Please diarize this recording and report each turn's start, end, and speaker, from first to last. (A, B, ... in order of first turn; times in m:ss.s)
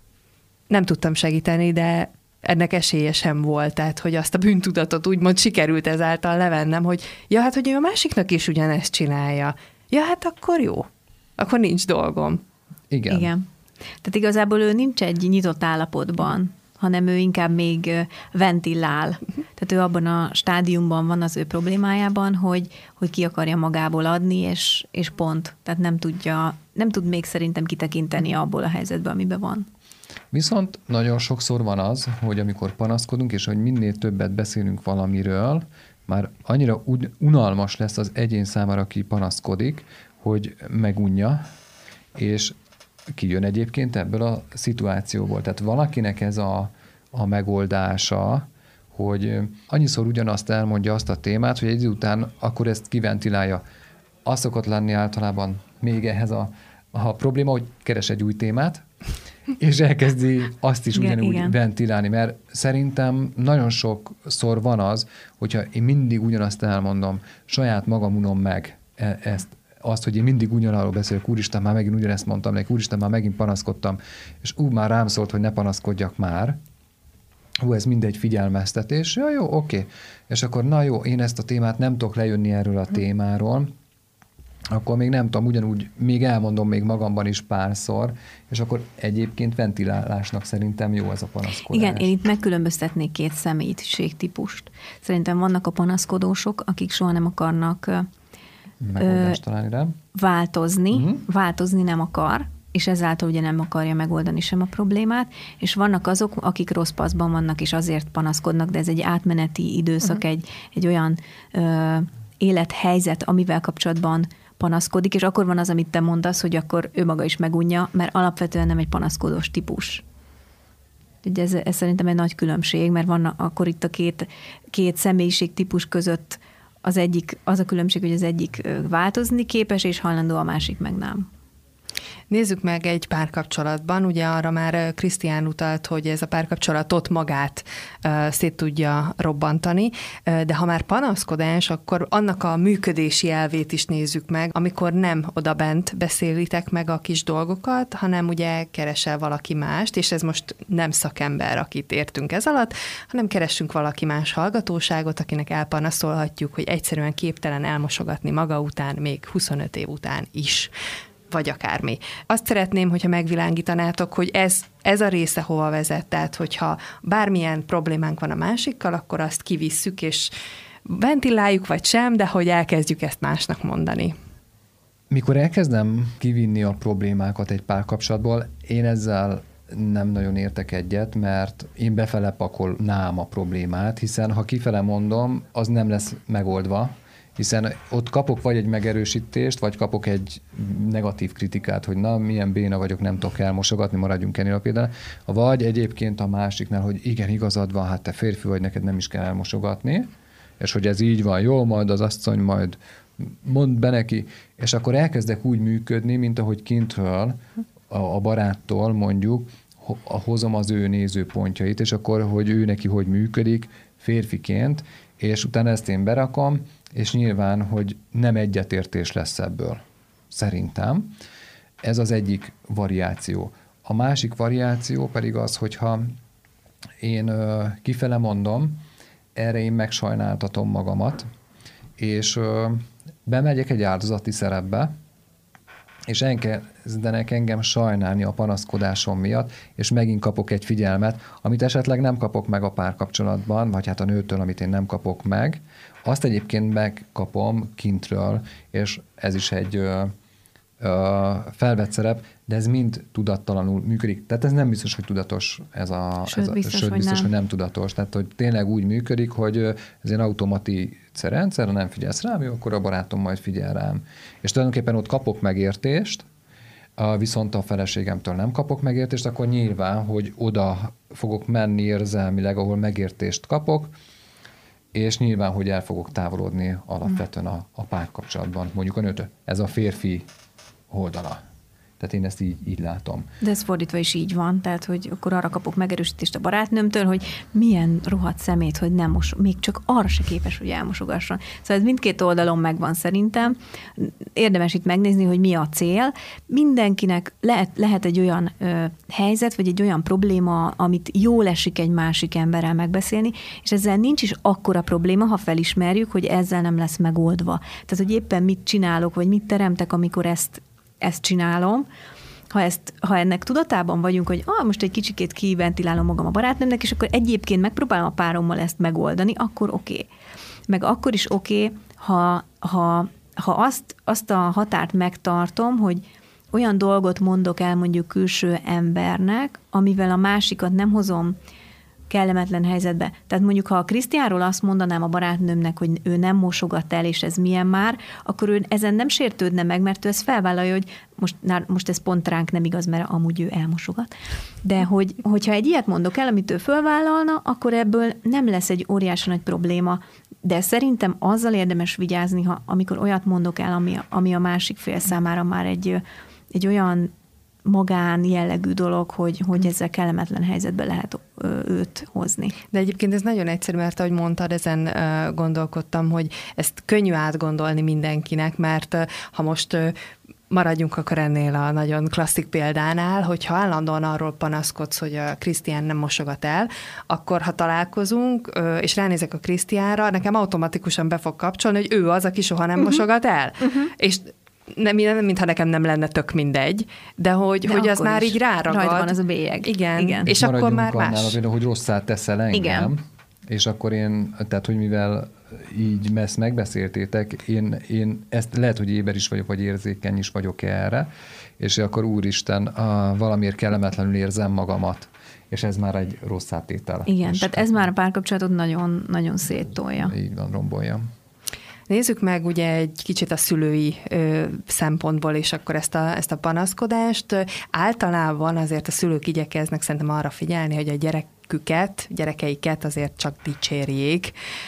0:00.7-0:10.9 A
0:11.4-0:12.4 A
0:12.9-0:13.3 B
0:13.1-0:13.4 C
0:14.0-0:29.7 C
0:30.3-0:41.4 B
0:42.2-0:42.5 B
0:43.2-0:53.6 B
0:54.2-0:58.8 B
0:59.6-1:16.6 B
1:00.9-1:01.6 C
1:17.6-1:23.7 B
1:24.7-1:32.1 B
1:31.6-1:38.1 C
1:38.8-1:40.0 B
1:39.0-1:39.4 C
1:40.1-2:00.0 C
1:40.9-1:41.2 B
2:01.2-2:11.3 C
2:12.3-2:40.7 A
2:41.3-2:50.3 A
2:50.9-2:54.1 A
2:55.1-3:20.1 B
3:20.6-3:27.4 B
3:27.9-3:41.1 B
3:41.8-3:46.1 B
3:47.0-3:48.8 B
3:49.4-3:51.2 B
3:52.0-3:54.9 B
3:56.1-4:10.1 B
4:10.8-4:26.3 B
4:16.3-4:17.3 C
4:27.0-4:33.9 B
4:34.9-4:40.3 B
4:40.9-4:41.4 B
4:42.0-4:43.3 B
4:43.4-5:11.9 C
5:12.5-5:20.1 C
5:20.7-5:31.4 C
5:32.1-5:44.1 C
5:44.6-5:56.0 C
5:56.5-5:57.1 C
5:57.7-6:02.6 C
6:02.7-6:09.9 A
6:10.5-6:31.4 A
6:27.6-6:30.3 C
6:30.3-6:41.1 B
6:32.5-6:32.9 C
6:41.6-6:47.9 B
6:47.1-6:50.1 C
6:50.0-6:51.0 B
6:51.9-7:04.3 A